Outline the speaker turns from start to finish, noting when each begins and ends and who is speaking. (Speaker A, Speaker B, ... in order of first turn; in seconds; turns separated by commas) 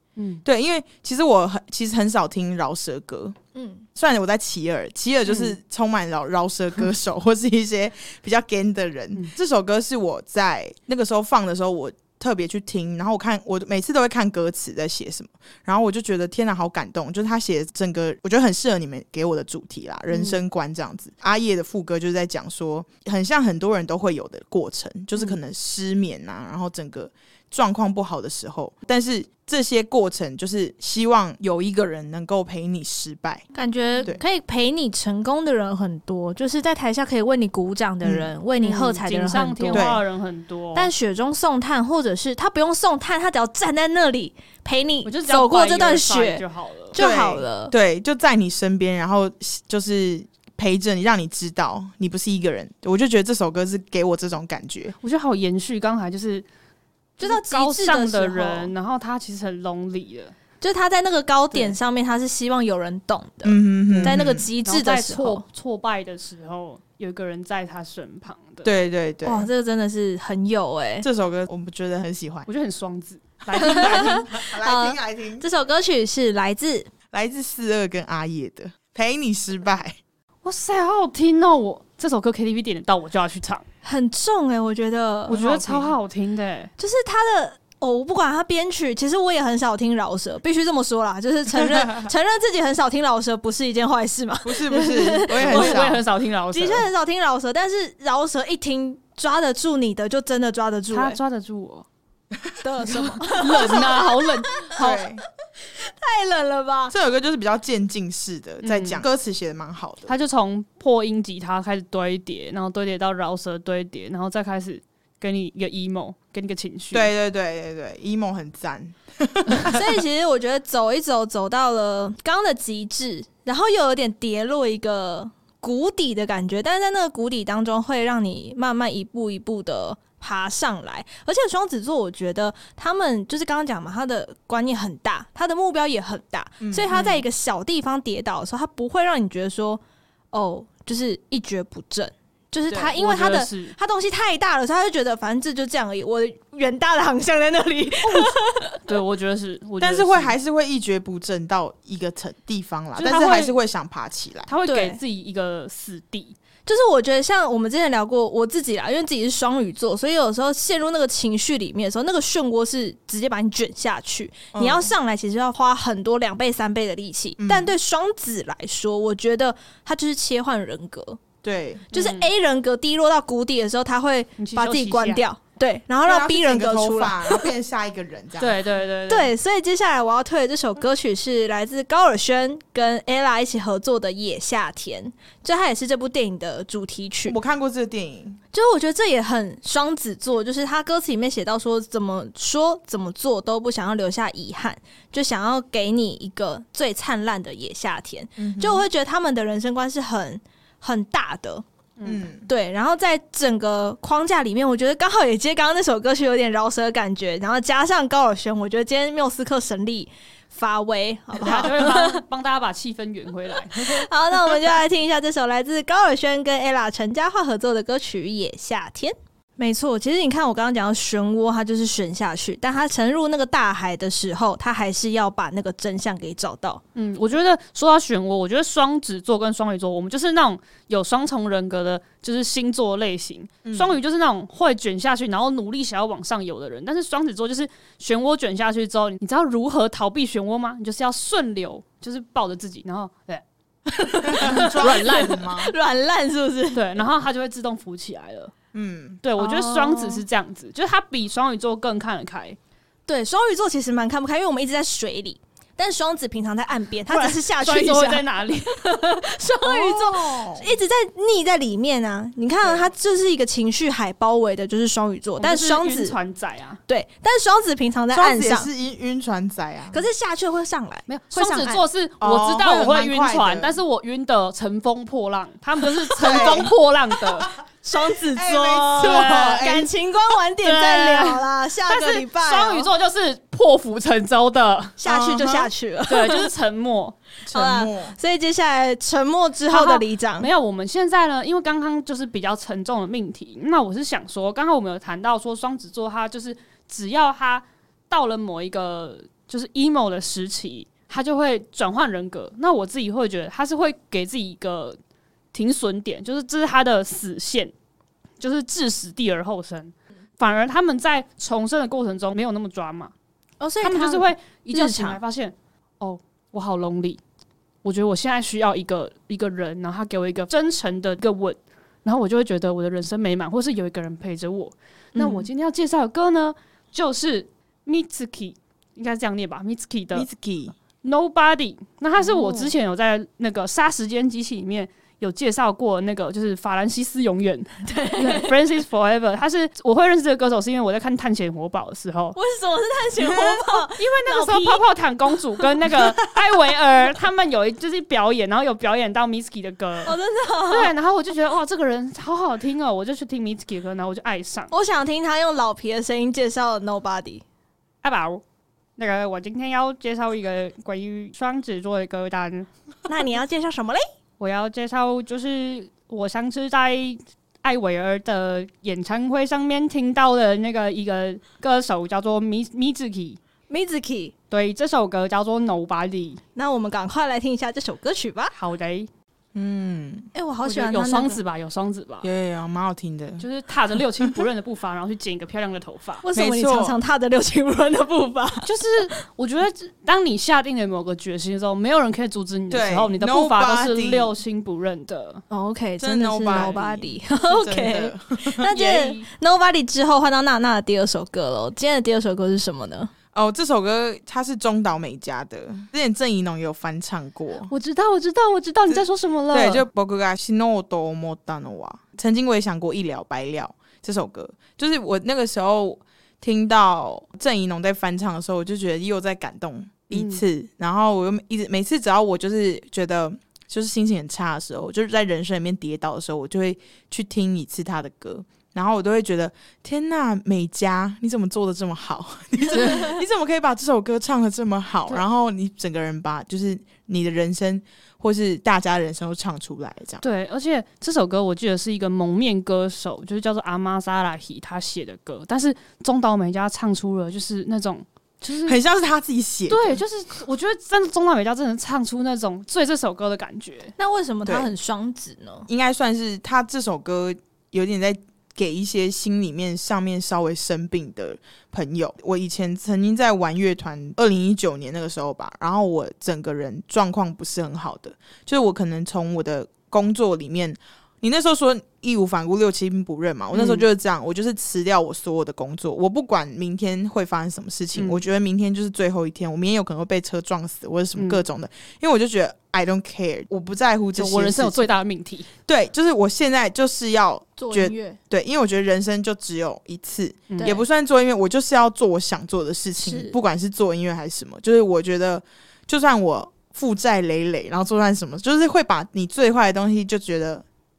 Speaker A: 0.2-0.4, Speaker B: 0.4-3.4, Speaker C: 3.5-3.9, Speaker B: 4.0-33.5, Speaker A: 20.1-20.4, Speaker C: 33.5-39.9, Speaker B: 38.0-38.3, Speaker A: 38.6-40.9, Speaker B: 39.7-40.0, Speaker C: 40.8-47.7, Speaker A: 45.0-47.0, Speaker B: 47.0-54.9, Speaker A: 55.0-56.5, Speaker C: 57.2-58.7, Speaker A: 57.2-60.3, Speaker C: 60.6-65.4, Speaker B: 63.4-64.5, Speaker A: 63.9-68.7, Speaker B: 68.6-69.5, Speaker C: 69.2-71.1, Speaker B: 71.0-72.5, Speaker A: 72.5-74.3, Speaker B: 73.5-75.5, Speaker C: 73.6-76.9, Speaker B: 77.1-80.0, Speaker A: 80.4-83.7, Speaker C: 83.8-85.4, Speaker A: 85.3-86.7, Speaker B: 85.3-85.9, Speaker C: 86.8-95.9, Speaker B: 91.6-92.1, Speaker B: 94.4-96.0, Speaker A: 95.4-96.9, Speaker C: 96.5-101.2, Speaker A: 100.9-101.9, Speaker B: 102.5-103.1, Speaker C: 102.6-105.1, Speaker A: 102.9-105.0, Speaker B: 104.8-105.2, Speaker C: 105.7-106.9, Speaker B: 106.9-110.1, Speaker A: 108.6-109.0, Speaker A: 110.1-117.1, Speaker B: 116.9-120.0, Speaker C: 119.6-139.8, Speaker B: 136.6-137.2, Speaker C: 140.3-148.8, Speaker B: 142.7-143.0, Speaker A: 142.9-143.8, Speaker A: 148.0-150.4, Speaker B: 149.8-154.5, Speaker A: 153.0-153.6, Speaker A: 154.5-156.3, Speaker C: 154.7-155.0, Speaker C: 156.7-171.2, Speaker B: 164.5-164.9, Speaker B: 167.4-167.8, Speaker B: 171.4-171.9, Speaker C: 171.9-177.5, Speaker A: 171.9-172.3, Speaker A: 174.4-175.2, Speaker B: 176.0-178.6, Speaker A: 178.4-179.3, Speaker C: 179.1-187.4, Speaker B: 187.3-188.4, Speaker C: 188.5-201.6, Speaker B: 198.4-198.9, Speaker A: 202.0-202.3, Speaker B: 202.0-202.5, Speaker C: 202.5-212.2, Speaker A: 211.4-214.1, Speaker C: 213.7-226.8, Speaker A: 226.9-243.4, Speaker B: 233.6-233.9, Speaker C: 243.9-247.0, Speaker B: 244.3-245.7, Speaker A: 244.3-245.4, Speaker A: 246.7-248.5, Speaker B: 248.7-249.2, Speaker A: 249.2-252.6, Speaker C: 249.4-250.2, Speaker C: 253.1-266.2, Speaker A: 257.1-259.0, Speaker B: 259.6-260.7, Speaker A: 265.4-266.8, Speaker C: 266.9-268.7, Speaker B: 268.1-270.1, Speaker C: 269.9-271.8, Speaker A: 271.1-277.5, Speaker B: 272.2-273.8, Speaker B: 276.2-276.7, Speaker C: 276.2-276.7, Speaker C: 277.8-282.9, Speaker B: 278.3-279.9, Speaker A: 278.9-279.6, Speaker A: 280.6-285.0, Speaker C: 285.0-286.5, Speaker B: 285.1-285.7, Speaker A: 286.1-287.2, Speaker B: 287.4-288.1, Speaker C: 287.5-290.5, Speaker A: 289.7-305.0, Speaker A: 305.5-307.7, Speaker A: 308.4-313.1, Speaker C: 313.6-315.2, Speaker A: 313.8-317.2, Speaker A: 317.8-330.3, Speaker C: 325.1-325.5, Speaker B: 330.1-330.8, Speaker A: 331.0-342.4, Speaker C: 332.2-332.7, Speaker C: 337.9-338.5, Speaker C: 342.4-344.8, Speaker B: 343.2-343.6, Speaker A: 343.4-350.2, Speaker C: 350.1-350.9, Speaker A: 350.7-354.7, Speaker C: 354.7-357.4, Speaker A: 358.0-358.4, Speaker A: 359.0-362.7, Speaker C: 363.1-364.0, Speaker A: 364.4-373.4, Speaker C: 373.7-374.3, Speaker A: 374.5-376.4, Speaker C: 376.6-378.5, Speaker A: 378.5-379.1, Speaker B: 379.6-380.3, Speaker C: 380.3-381.4, Speaker A: 380.6-382.3, Speaker B: 382.2-383.4, Speaker A: 383.4-386.2, Speaker C: 386.2-388.7, Speaker B: 386.3-387.0, Speaker A: 388.6-395.4, Speaker B: 392.7-394.3, Speaker C: 395.5-403.1, Speaker B: 396.0-398.7, Speaker A: 396.5-396.8, Speaker A: 398.7-399.3, Speaker B: 403.3-407.7, Speaker A: 407.7-409.8, Speaker B: 408.9-440.2, Speaker A: 420.1-420.4, Speaker C: 432.8-433.2, Speaker A: 440.2-448.8, Speaker B: 448.6-450.0, Speaker A: 449.7-453.9, Speaker C: 454.0-455.7, Speaker B: 454.4-454.7, Speaker B: 455.7-484.9, Speaker A: 473.5-473.8, Speaker A: 477.9-478.2, Speaker A: 481.2-481.4, Speaker A: 484.1-485.5, Speaker B: 485.7-500.6, Speaker C: 487.6-488.2, Speaker A: 490.5-490.8, Speaker C: 493.0-493.4